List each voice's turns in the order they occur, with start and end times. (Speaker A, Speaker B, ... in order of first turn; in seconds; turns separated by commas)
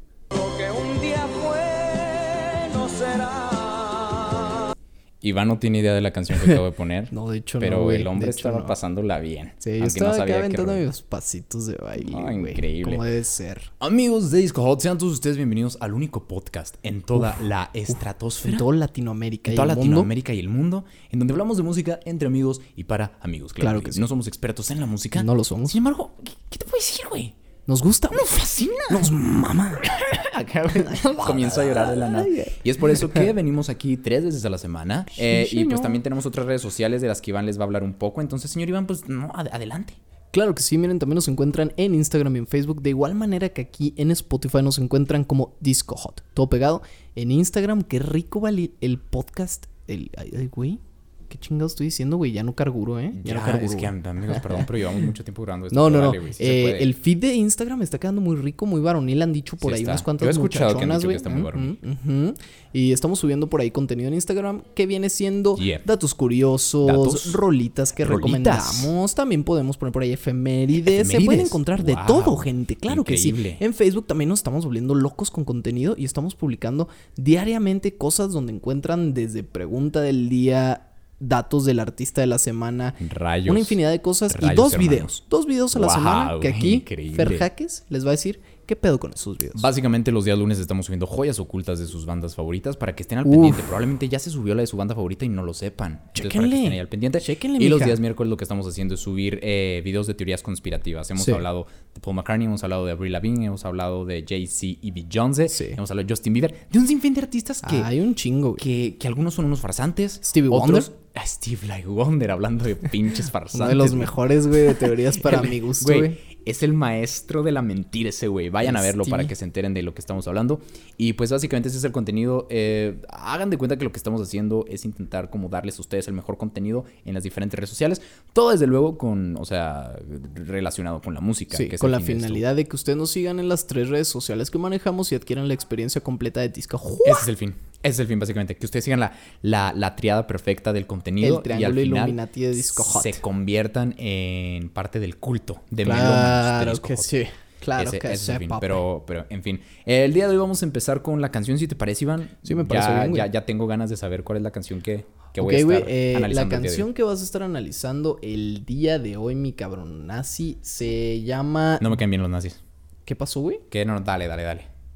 Speaker A: 0.3-4.5, Speaker B: 5.2-10.8, Speaker C: 7.1-8.8, Speaker C: 9.6-13.7, Speaker B: 12.0-13.0, Speaker B: 13.8-18.6, Speaker C: 18.4-20.1, Speaker B: 19.4-27.3, Speaker C: 23.6-24.1, Speaker C: 25.1-25.8, Speaker C: 27.7-29.9, Speaker B: 28.1-29.2, Speaker B: 29.8-40.0, Speaker C: 30.6-33.3, Speaker C: 35.1-36.0, Speaker C: 40.3-55.1, Speaker B: 53.2-56.9, Speaker C: 55.7-89.7, Speaker B: 59.6-61.8, Speaker B: 65.6-65.8, Speaker B: 66.8-67.4, Speaker B: 68.0-68.9, Speaker B: 70.8-73.6, Speaker B: 83.0-85.2, Speaker B: 85.7-87.5, Speaker B: 89.5-107.9, Speaker C: 93.2-93.7, Speaker C: 96.1-98.0, Speaker C: 101.2-101.4, Speaker C: 105.5-105.8, Speaker C: 107.6-108.6, Speaker B: 108.6-114.2, Speaker C: 110.2-110.9, Speaker C: 113.5-116.2, Speaker B: 114.7-132.4, Speaker C: 118.6-119.3, Speaker C: 131.5-137.3, Speaker B: 137.0-147.1, Speaker C: 141.2-143.2, Speaker C: 145.8-148.8, Speaker B: 147.8-156.9, Speaker C: 152.4-153.3, Speaker C: 155.4-161.9, Speaker B: 161.8-162.6, Speaker C: 163.1-163.6, Speaker B: 163.7-164.7